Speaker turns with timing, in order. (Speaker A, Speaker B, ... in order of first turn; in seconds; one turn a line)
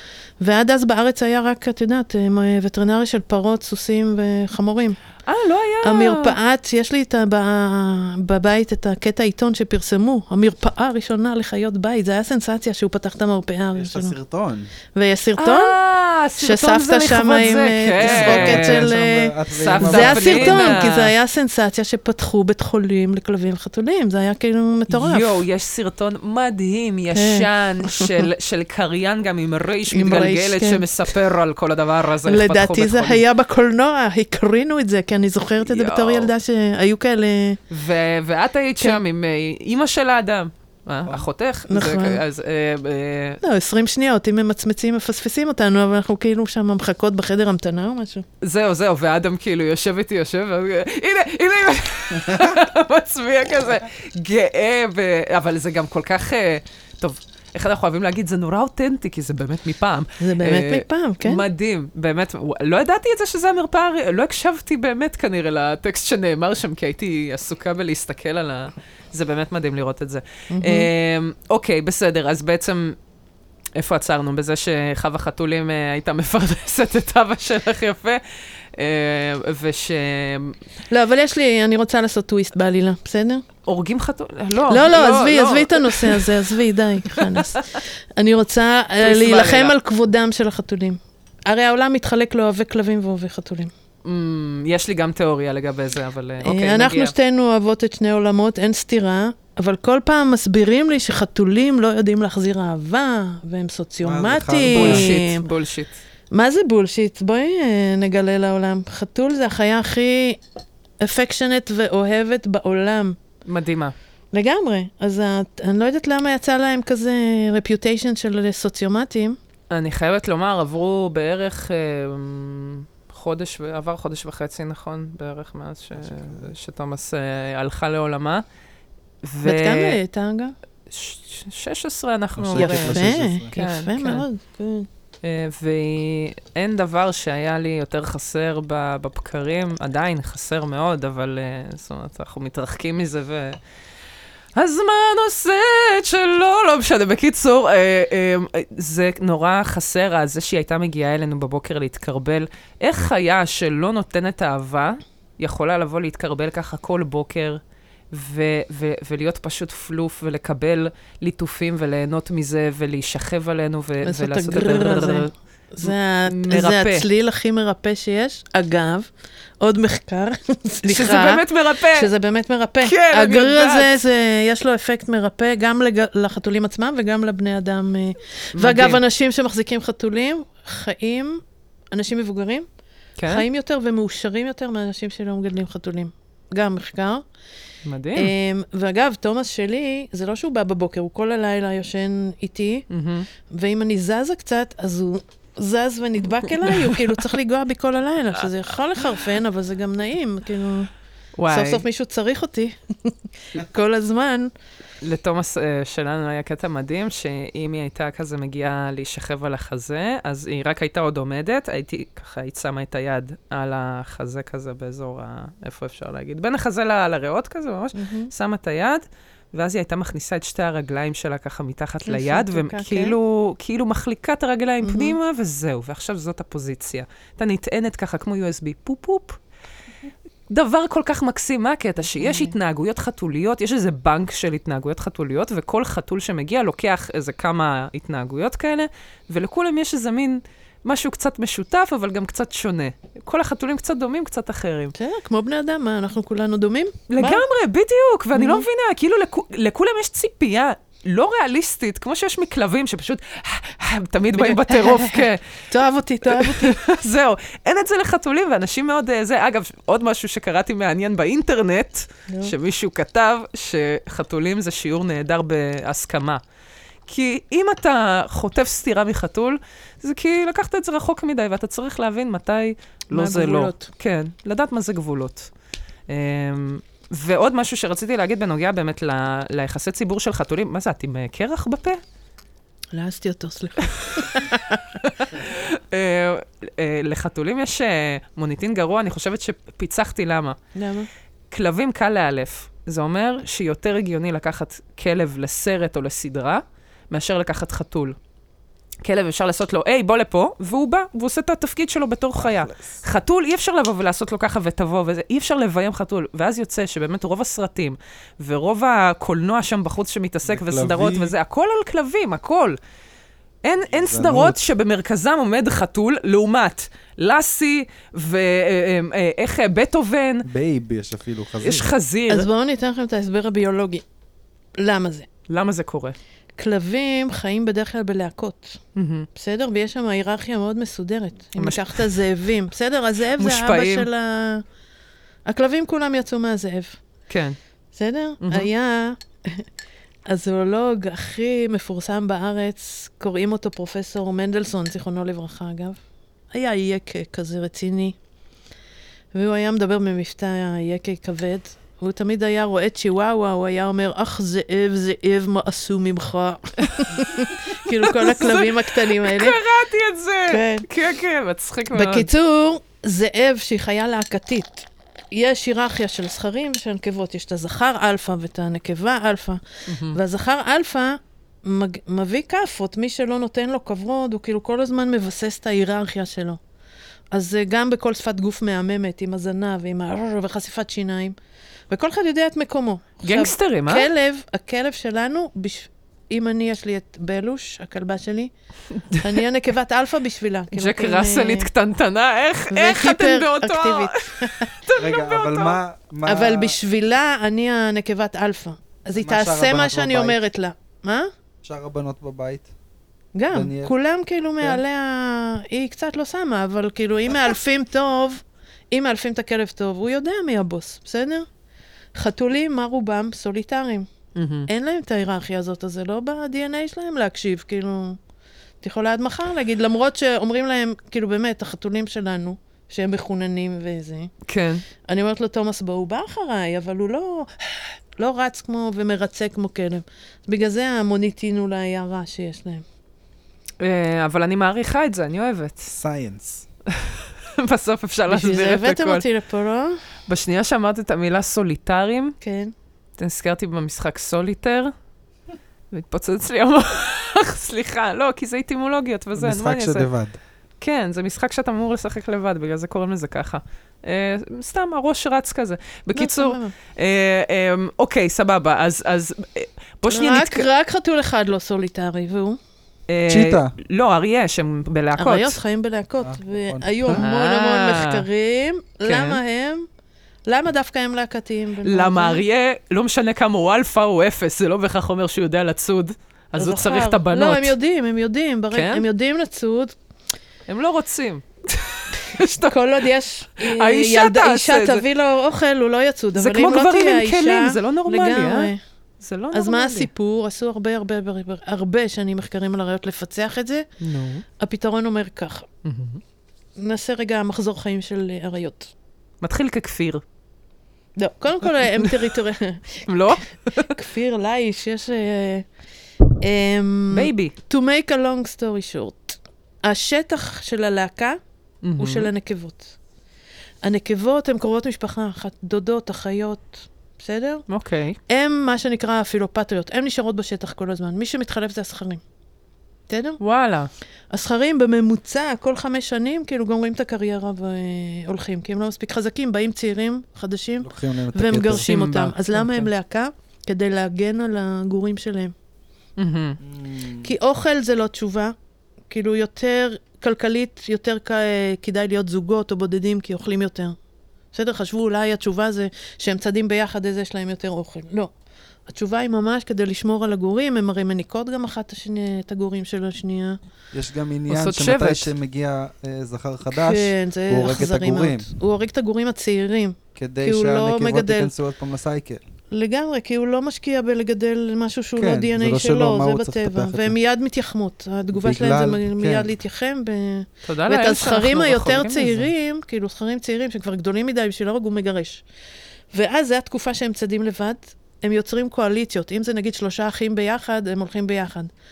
Speaker A: 0.4-5.0
Speaker B: 5.3-6.3
Speaker A: 5.8-14.2
Speaker C: 13.7-14.7
Speaker A: 14.9-15.8
Speaker B: 15.4-18.9
Speaker A: 16.4-25.4
Speaker C: 18.0-20.9
Speaker B: 19.5-21.1
Speaker B: 24.9-33.2
Speaker A: 27.1-28.1
Speaker A: 29.9-30.9
Speaker A: 32.2-37.6
Speaker B: 35.6-36.3
Speaker B: 37.7-43.4
Speaker A: 41.7-42.2
Speaker A: 43.4-48.2
Speaker B: 48.4-73.0
Speaker A: 60.2-61.4
Speaker A: 70.5-70.9
Speaker B: 73.8-78.2
Speaker B: 78.7-80.6
Speaker A: 80.9-83.4
Speaker B: 83.7-86.4
Speaker A: 84.7-93.7
Speaker B: 89.0-89.7
Speaker B: 94.0-97.1
Speaker A: 96.4-105.4
Speaker C: 104.0-105.1
Speaker B: 104.7-106.0
Speaker A: 106.3-110.4
Speaker A: 111.0-113.2
Speaker B: 113.5-113.9
Speaker A: 114.3-119.4
Speaker B: 119.7-128.4
Speaker C: 126.0-126.5
Speaker B: 129.2-130.0
Speaker A: 129.4-130.5
Speaker B: 130.9-134.2
Speaker C: 132.3-133.5
Speaker A: 132.6-134.9
Speaker B: 135.2-143.6
Speaker B: 144.5-157.6
Speaker B: 158.1-165.3
Speaker A: 164.0-169.1
Speaker B: 165.8-167.1
Speaker A: 169.6-182.7
Speaker B: 170.8-172.1
Speaker B: 172.8-173.9
Speaker B: 178.5-179.0
Speaker B: 183.2-183.4
Speaker A: 183.2-187.2
Speaker B: 187.8-188.3
Speaker A: 188.2-192.8
Speaker B: 192.9-193.3
Speaker A: 193.5-200.9
Speaker B: 196.7-197.0
Speaker B: 201.4-201.8
Speaker A: 201.5-204.5
Speaker B: 205.0-229.4
Speaker A: 217.9-218.3
Speaker A: 222.1-223.2
Speaker A: 224.8-225.2
Speaker B: 230.5-244.9
Speaker A: 232.2-232.5
Speaker A: 244.9-247.4
Speaker B: 247.1-255.4
Speaker A: 248.3-248.7
Speaker A: 254.3-256.8
Speaker B: 256.3-266.4
Speaker A: 262.3-262.5
Speaker B: 267.1-275.5
Speaker A: 273.1-273.9
Speaker B: 276.1-282.0
Speaker A: 282.9-284.8
Speaker B: 285.1-290.6
Speaker A: 290.7-291.1
Speaker B: 291.5-298.1
Speaker B: 299.0-312.8
Speaker C: 302.4-303.0
Speaker C: 310.4-311.3
Speaker B: 313.6-320.4
Speaker C: 313.8-314.6
Speaker C: 320.4-321.9
Speaker B: 321.6-322.5
Speaker A: 322.3-324.0
Speaker A: 324.8-325.3
Speaker B: 325.5-326.1
Speaker A: 326.6-328.8
Speaker B: 328.9-329.3
Speaker A: 329.3-334.6
Speaker B: 331.6-332.2
Speaker B: 333.4-334.1
Speaker A: 335.4-337.0
Speaker B: 337.3-337.6
Speaker A: 337.9-339.6
Speaker B: 338.4-338.7
Speaker A: 340.3-346.0
Speaker A: 346.5-348.2
Speaker A: 349.3-359.6
Speaker B: 357.9-362.3
Speaker A: 360.5-360.9
Speaker A: 361.9-376.6
Speaker B: 369.9-370.2
Speaker A: 377.3-381.4
Speaker A: 381.9-388.5
Speaker B: 383.2-384.1
Speaker A: 389.1-391.7
Speaker B: 389.1-389.4
Speaker B: 390.7-395.8
Speaker A: 392.7-394.7
Speaker C: 395.0-396.8
Speaker A: 396.2-401.3
Speaker C: 399.1-400.4
Speaker C: 401.6-402.7
Speaker A: 403.3-411.5
Speaker C: 403.5-403.9
Speaker A: 412.1-414.1
Speaker B: 414.3-414.7
Speaker A: 414.7-418.2
Speaker A: 418.8-424.3
Speaker B: 424.4-424.8
Speaker A: 425.1-432.8
Speaker B: 433.8-435.9
Speaker C: 435.9-436.7
Speaker B: 436.9-439.2
Speaker A: 438.3-440.0
Speaker B: 440.3-442.3
Speaker A: 442.4-442.7
Speaker B: 443.2-444.9
Speaker B: 445.9-450.1
Speaker C: 449.4-450.4
Speaker B: 450.8-460.7
Speaker A: 456.1-456.7
Speaker A: 460.1-462.6
Speaker B: 463.1-465.6
Speaker C: 463.3-463.7
Speaker A: 465.1-469.9
Speaker C: 466.2-467.2
Speaker B: 467.2-468.2
Speaker B: 469.0-469.4
Speaker A: 470.5-472.4
Speaker B: 471.8-477.7
Speaker A: 476.6-479.9
Speaker B: 478.7-479.0
Speaker B: 480.7-482.8
Speaker A: 482.3-488.8
Speaker B: 483.6-485.0
Speaker B: 486.3-490.1
Speaker A: 489.5-493.9
Speaker B: 494.0-494.4
Speaker A: 494.6-495.6
Speaker B: 495.8-496.2
Speaker A: 496.8-498.9
Speaker B: 499.4-500.2
Speaker A: 501.2-505.6
Speaker B: 502.0-502.3
Speaker B: 503.1-503.9
Speaker A: 506.4-511.4
Speaker B: 507.1-507.5
Speaker B: 511.8-512.3
Speaker A: 512.0-513.0
Speaker A: 513.8-517.6
Speaker B: 517.7-518.2
Speaker A: 518.3-522.2
Speaker A: 523.1-523.4
Speaker B: 523.4-523.9
Speaker A: 524.3-535.5
Speaker C: 530.8-531.9
Speaker B: 531.7-532.9
Speaker B: 536.2-536.6
Speaker C: 536.6-537.3
Speaker A: 537.2-538.5
Speaker A: 539.1-544.0
Speaker A: 544.5-548.3
Speaker A: 548.9-553.6
Speaker C: 553.9-558.5
Speaker B: 554.5-555.3
Speaker A: 556.7-561.5
Speaker C: 560.1-562.4
Speaker A: 562.7-575.4
Speaker C: 565.2-567.1
Speaker C: 568.3-569.5
Speaker B: 570.6-572.5
Speaker A: 576.1-581.7